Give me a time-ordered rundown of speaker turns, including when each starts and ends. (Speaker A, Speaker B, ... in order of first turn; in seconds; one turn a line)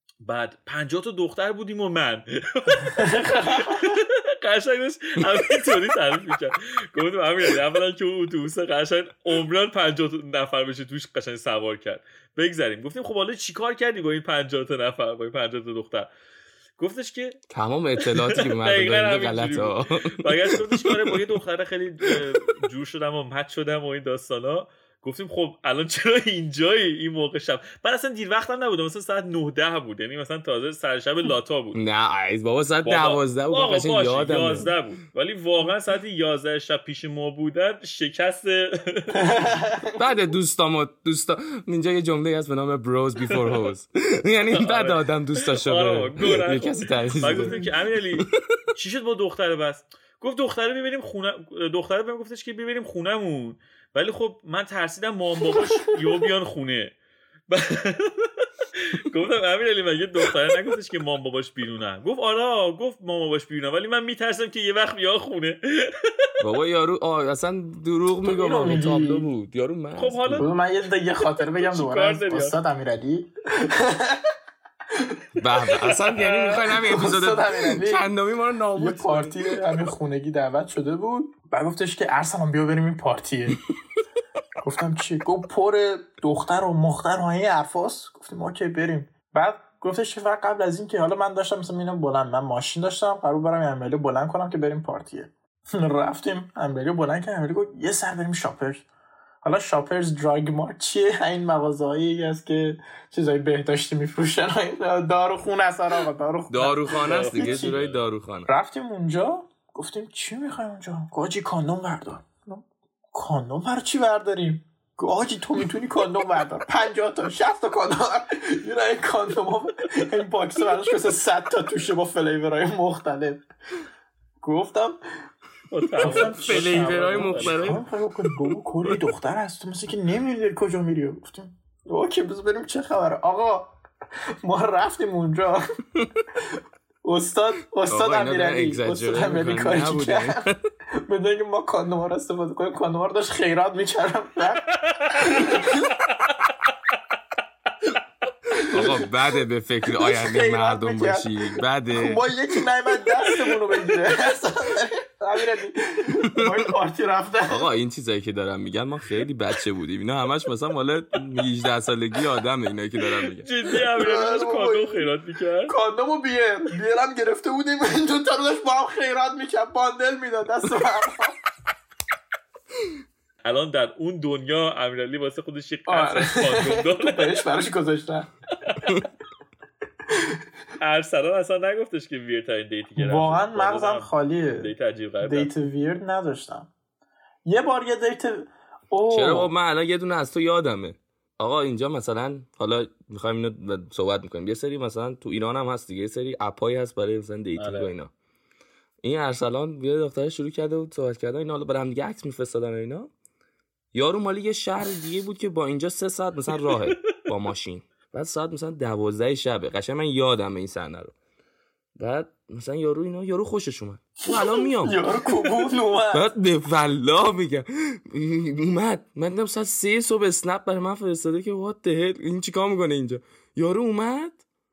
Speaker A: 0.2-16.1
Speaker B: 2.9-4.0
Speaker A: 16.8-17.4
Speaker C: 17.5-21.2
Speaker A: 18.0-31.8
Speaker C: 31.7-34.7
Speaker A: 32.8-39.6
Speaker B: 39.2-40.0
Speaker C: 40.0-48.3
Speaker A: 43.4-43.7
Speaker A: 44.5-56.9
Speaker B: 47.4-47.6
Speaker A: 57.5-66.1
Speaker C: 66.4-70.5
Speaker B: 68.2-69.3
Speaker A: 70.0-70.6
Speaker B: 70.3-74.2
Speaker A: 71.2-72.6
Speaker C: 75.4-79.6
Speaker A: 76.0-76.6
Speaker B: 76.6-78.1
Speaker B: 78.7-83.6
Speaker B: 84.6-98.8
Speaker B: 99.4-107.8
Speaker C: 106.5-108.5
Speaker A: 106.9-108.0
Speaker B: 108.5-123.4
Speaker B: 124.4-125.0
Speaker A: 125.7-127.6
Speaker B: 126.0-133.7
Speaker C: 126.0-128.5
Speaker B: 134.4-135.6
Speaker B: 137.0-140.4
Speaker C: 137.9-140.6
Speaker B: 141.0-145.9
Speaker A: 144.8-146.5
Speaker B: 148.5-149.1
Speaker C: 148.7-152.2
Speaker B: 149.9-157.7
Speaker C: 156.3-156.7
Speaker C: 157.5-163.4
Speaker A: 163.4-165.7
Speaker B: 163.9-165.1
Speaker B: 165.7-171.4
Speaker A: 173.4-177.4
Speaker B: 175.9-178.3
Speaker A: 178.6-178.9
Speaker A: 180.8-185.5
Speaker B: 183.0-186.7
Speaker B: 187.4-189.5
Speaker C: 189.1-198.1
Speaker A: 197.6-197.9
Speaker C: 199.0-203.1
Speaker C: 203.9-211.1
Speaker C: 212.0-215.0
Speaker B: 214.2-216.3
Speaker C: 216.1-224.4